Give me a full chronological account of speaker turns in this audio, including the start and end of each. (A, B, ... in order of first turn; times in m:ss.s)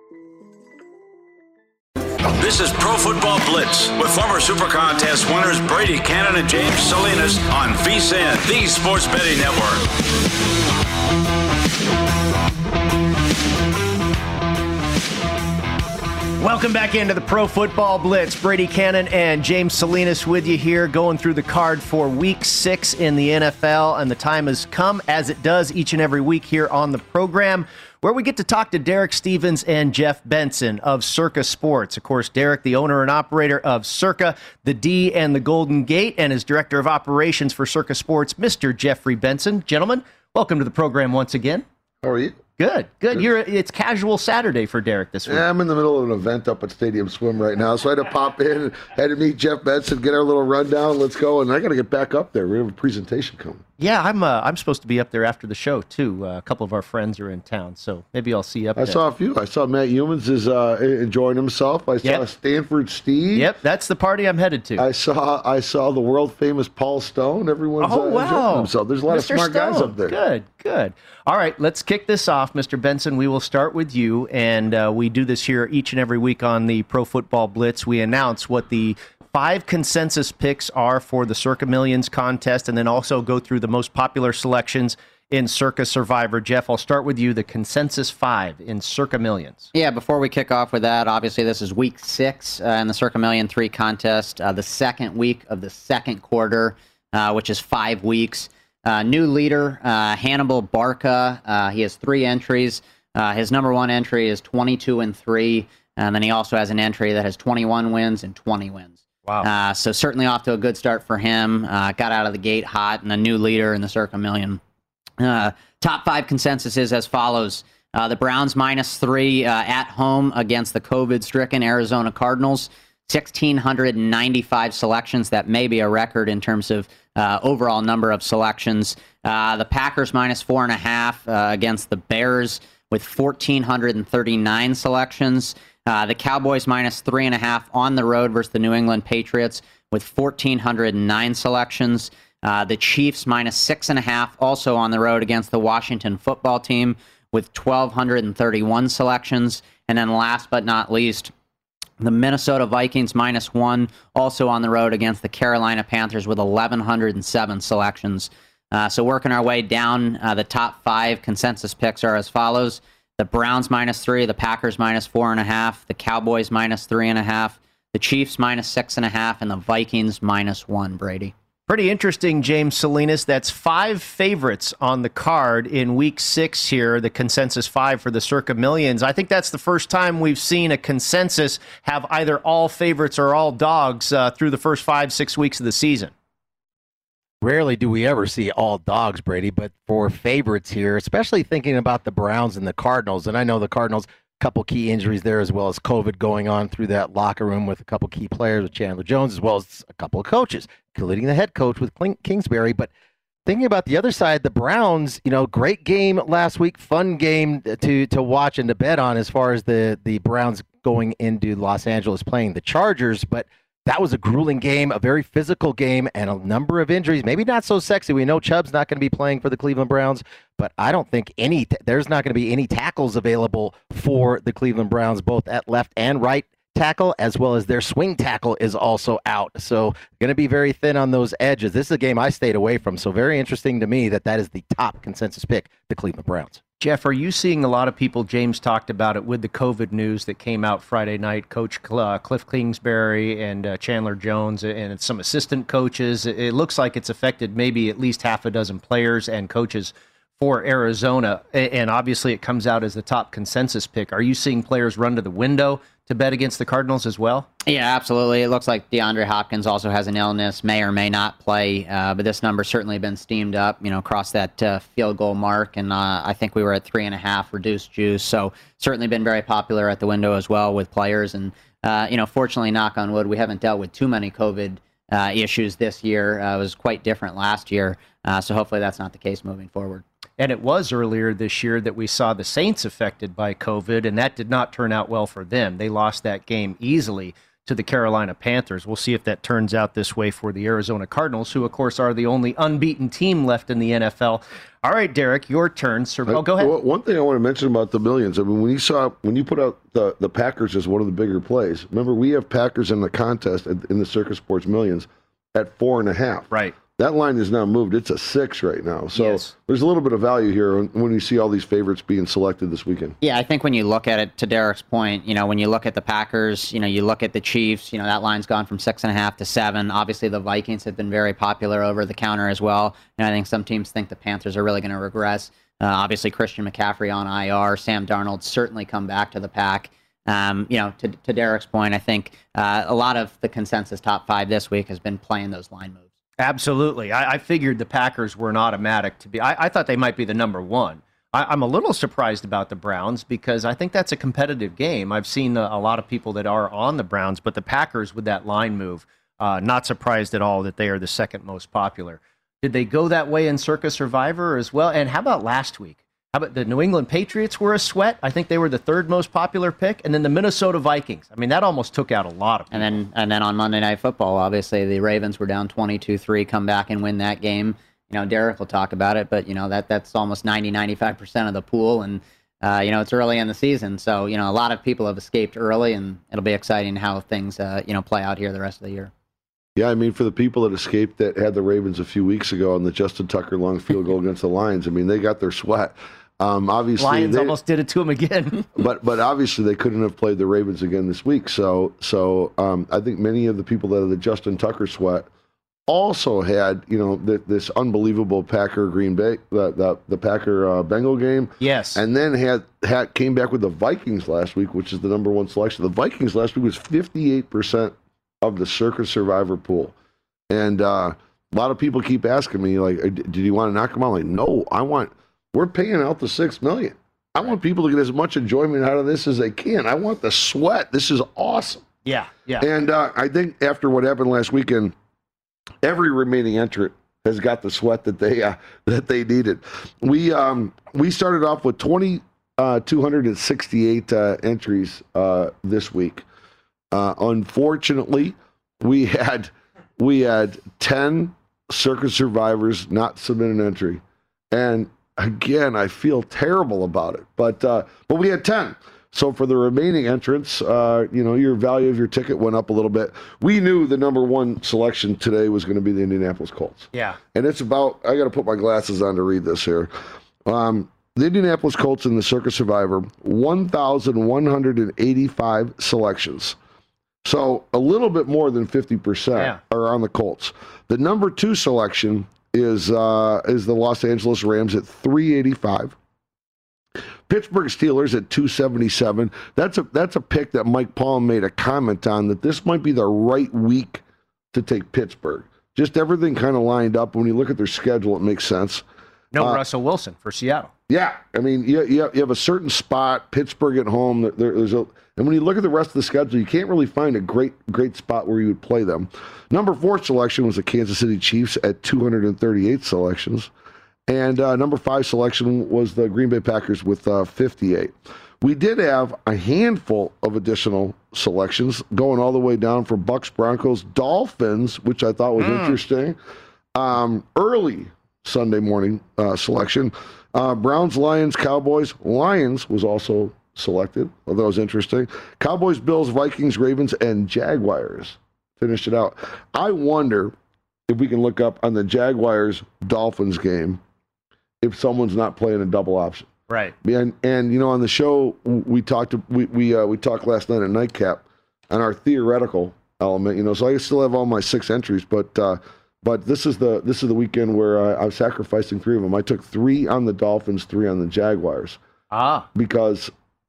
0:02.3-0:09.9 A
0:16.4-0:41.6 B
0:42.0-0:42.4 C
0:42.6-0:45.5 B
0:45.3-0:53.6 C
0:53.8-0:59.0 B
0:58.8-1:03.5 C
1:03.3-1:04.8 B
1:04.8-1:10.1 C
1:07.8-1:29.7 B
1:29.7-1:54.6 D
1:55.2-2:31.3 D
2:32.0-2:51.3 D
2:51.7-3:06.1 B
3:07.4-3:22.9 E
3:23.4-3:56.6 E
3:56.8-4:17.5 B
4:17.6-4:40.0 D
4:40.4-4:56.7 B
4:56.3-5:13.2 C
5:06.5-5:06.8 B
5:09.1-5:09.6 B
5:13.2-5:36.0 D
5:36.4-6:02.9 B
6:02.7-6:19.1 D
6:19.8-6:27.5 C
6:27.0-6:28.7 B
6:28.8-6:35.3 C
6:35.9-6:49.9 C
6:41.6-6:42.0 B
6:50.5-7:01.9 C
7:02.0-7:02.7 B
7:02.6-7:04.9 C
7:05.8-7:16.2 C
7:16.9-7:39.9 C
7:36.9-7:37.2 B
7:40.4-7:46.6 C
7:47.2-7:55.9 C
7:57.3-8:08.8 C
8:09.3-8:10.7 B
8:10.9-8:23.5 C
8:24.1-8:36.2 C
8:35.4-8:35.8 B
8:36.7-8:50.3 C
8:50.9-8:53.8 C
8:54.6-9:11.8 C
8:56.5-8:56.7 B
9:12.1-9:12.5 B
9:12.5-9:13.1 C